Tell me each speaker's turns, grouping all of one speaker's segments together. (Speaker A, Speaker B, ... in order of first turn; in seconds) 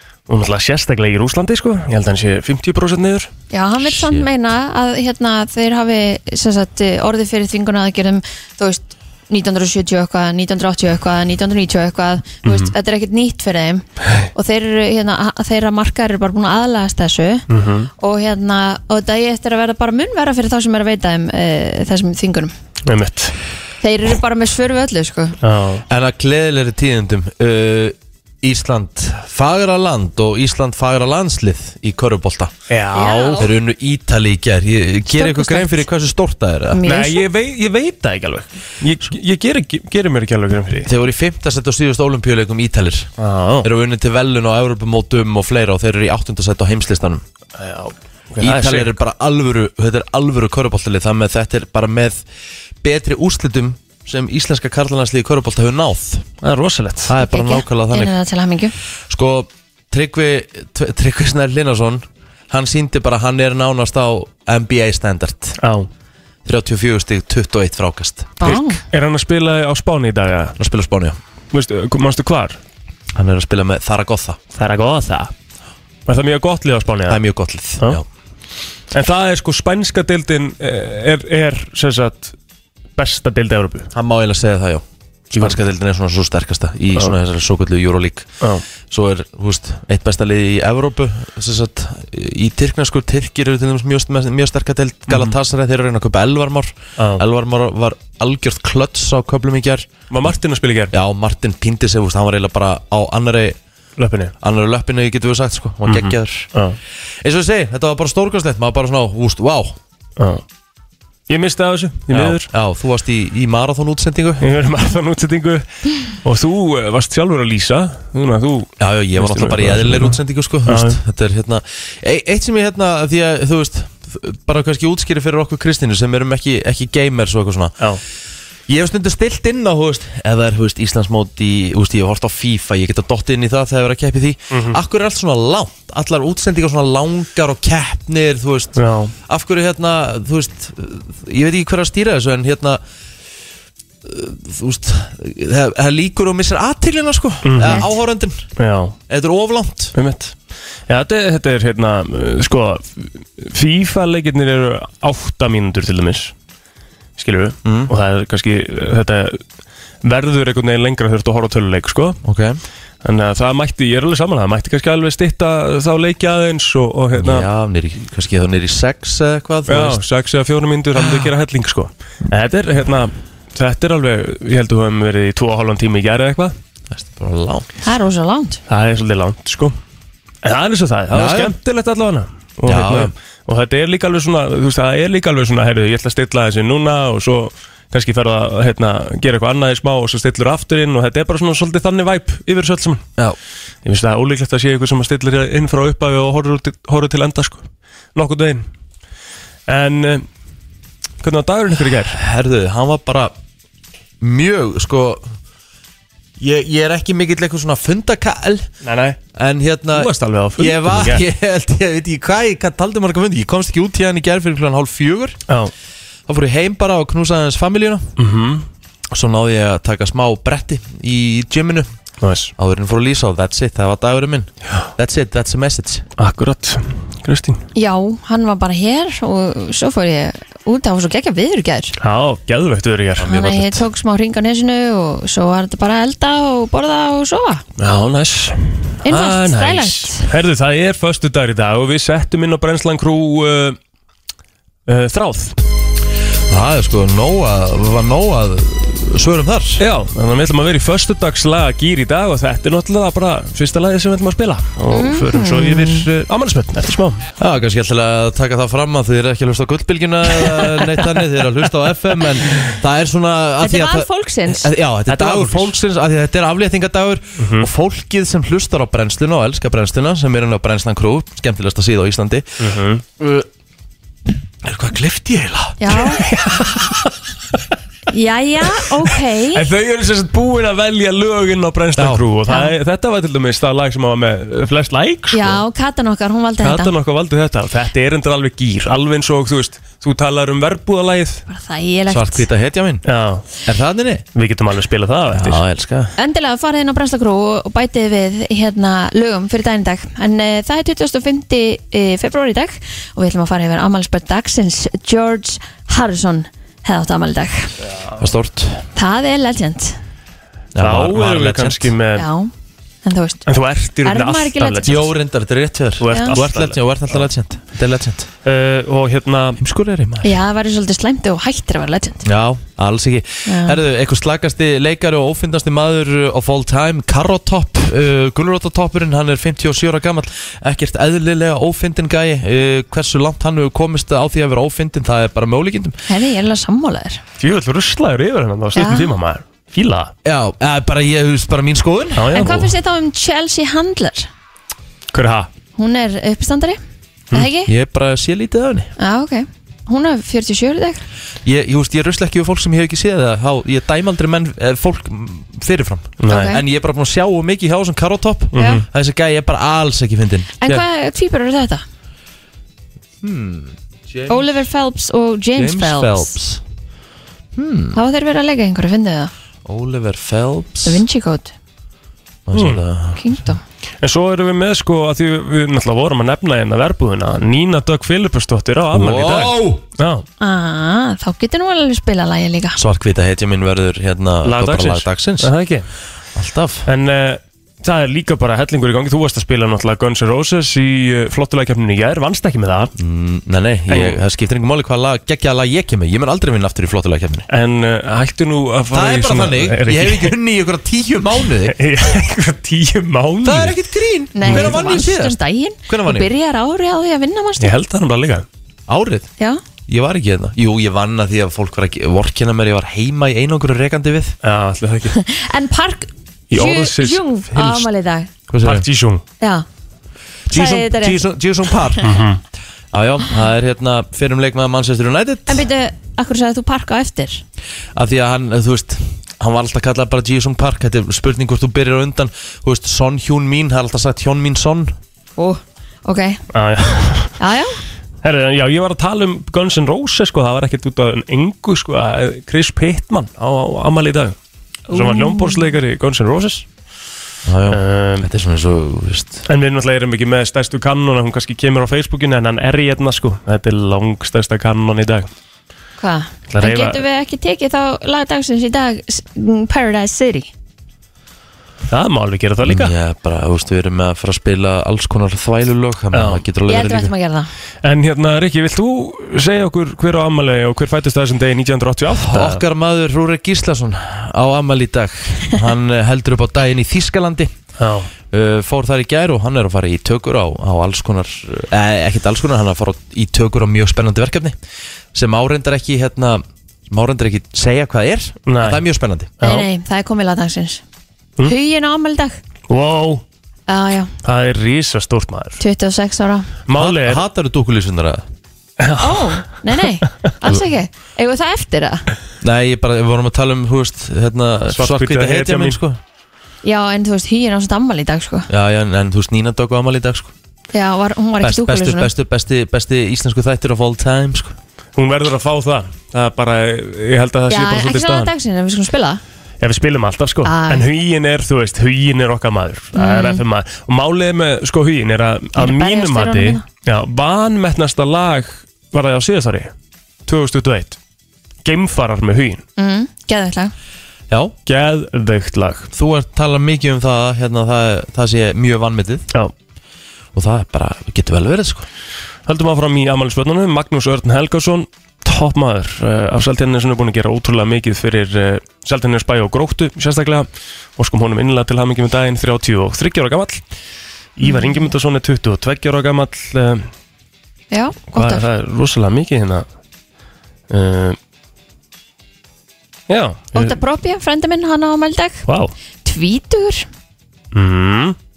Speaker A: 0.3-3.3, 12.4-12.7, 17.5-17.9, 22.9-23.3, 25.4-25.8, 32.7-33.5, 36.9-40.9, 43.2-43.7, 47.6-49.0, 56.4-57.1, 65.6-65.9, 68.4-70.5, 71.5-72.6, 74.5-75.3, 76.1-77.2, 78.9-82.3, 83.0-83.9, 85.3-85.6, 95.1-95.3, 100.1-100.9, 104.0-104.3, 105.9-106.8, 111.3-112.5, 114.4-121.0, 134.5-134.8, 138.8-139.1, 147.4-147.8, 148.6-148.9, 149.9-150.3, 150.9-156.3, 157.2-159.4, 160.0-162.2, 163.0-167.4, 169.7-176.5, 178.7-179.8, 180.4-193.0, 193.8-198.6, 199.7-200.2, 201.2-202.2, 208.8-209.2, 209.9-211.2, 218.2-218.7, 222.2-222.5, 226.2-227.6, 232.0-233.8, 237.8-243.8, 244.9-245.6, 249.8-257.2, 265.1-265.7, 267.4-267.7, 272.6-273.0, 276.2-277.1, 279.5-285.6, 286.6-291.4, 293.1-293.4, 294.3-295.6, 310.8-312.3, 313.5-315.1, 316.0-317.2, 318.4-319.6, 337.4-340.1, 342.2-342.6, 345.1-345.5, 356.2-356.5, 358.5-358.8, 372.5-372.8, 374.0-380.2, 384.4-385.9, 386.9-392.9, 393.9-394.2, 397.5-400.3, 401.7-403.8, 404.4-404.8, 407.6-408.4, 414.4-415.1, 416.5-417.9, 418.6-419.2, 422.0-422.4, 436.5-437.3, 438.2-444.3, 444.9-446.6, 447.7-448.2, 449.5-455.3, 456.5-457.0, 461.9-462.9, 466.1-466.4, 467.8-472.6, 477.8-478.1, 488.5-488.8, 489.4-489.7, 492.7-493.2, 494.2-495.6, 496.7-497.2, 498.8-499.4, 504.7-505.8, 515.0-518.3, 519.6-529.7, 530.2-531.0, 531.6-532.6, 534.6-535.9, 542.5-553.6, 554.4-556.9, 558.1-559.6, 560.7-561.2, 563.1-563.8, 565.5-565.7, 567.5-568.1
Speaker B: 3.5-17.4, 18.0-22.5, 23.8-25.4, 32.9-33.5, 35.1-35.8, 36.7-37.2, 57.2-58.7, 68.4-68.8, 177.8-178.6, 227.7-231.9, 233.3-237.6, 239.0-240.2, 254.9-256.0, 263.6-264.7, 275.8-276.2, 278.1-279.6, 282.5-282.7, 285.3-286.9, 291.5-292.5, 296.2-307.7, 308.9-310.0, 312.1-312.5, 313.0-313.4, 314.0-315.0, 320.2-322.2, 323.4-323.8, 336.1-337.2, 338.8-339.1, 342.3-344.3, 345.8-346.8, 347.3-347.7, 349.0-351.0, 356.3-356.6, 358.6-358.8, 360.6-361.8, 364.3-366.3, 367.9-369.3, 370.8-371.5, 373.2-373.6, 380.4-382.8, 404.3-407.7, 415.1-418.3, 419.4-419.6, 420.5-421.2, 425.5-427.4, 435.4-436.4, 437.4-437.8, 444.9-445.7, 456.0-460.5, 466.7-467.5, 489.4-490.8, 491.4-492.4, 493.7-494.1, 495.6-496.5, 499.0-502.1, 506.6-508.5, 510.7-512.1, 517.5-519.2, 520.4-520.8, 522.9-523.4, 525.6-526.6, 532.8-533.7, 554.4-554.9, 557.7-558.4, 563.5-565.4, 566.0-566.9
Speaker C: 3.8-4.3, 25.9-32.5, 33.4-36.8, 40.9-43.1, 43.6-47.2, 48.4-52.2, 52.8-56.3, 57.1-58.1, 59.1-65.5, 66.4-68.5, 70.6-71.2, 73.1-74.4, 77.1-78.0, 83.9-88.3, 88.9-99.9, 100.9-103.6, 104.4-106.5, 107.2-109.8, 112.1-114.5, 118.8-127.8, 128.7-142.8, 144.0-148.4, 149.1-149.9, 157.6-157.9, 162.2-162.6, 167.1-170.0, 170.9-171.3, 176.9-177.7, 181.1-181.5, 182.7-183.1, 202.1-203.3, 204.2-205.3, 206.4-208.7, 209.3-215.4, 216.3-218.1, 219.1-221.9, 222.6-226.0, 233.2-233.6, 246.5-249.8, 257.4-272.5, 273.2-273.5, 274.6-275.9, 282.0-282.2, 292.1-293.0, 293.6-294.2, 295.3-296.1, 308.2-308.8, 310.7-311.9, 314.8-318.3, 319.6-320.4, 322.2-336.0, 340.2-342.6, 347.6-348.9, 351.4-360.8, 363.2-364.4, 365.5-366.6, 367.5-368.0, 369.6-371.0, 372.5-373.4, 378.9-379.8, 382.8-385.5, 386.3-386.9, 393.0-397.4, 398.9-401.8, 403.4-406.3, 408.9-409.3, 409.9-414.4, 418.5-418.8, 420.5-422.1, 422.9-425.6, 427.9-434.9, 447.4-449.4, 462.6-467.1, 472.1-477.5, 478.3-484.6, 485.1-489.3, 496.7-498.2, 502.4-506.0, 508.5-510.3, 511.4-514.5, 534.3-534.5, 535.9-539.2, 540.3-541.9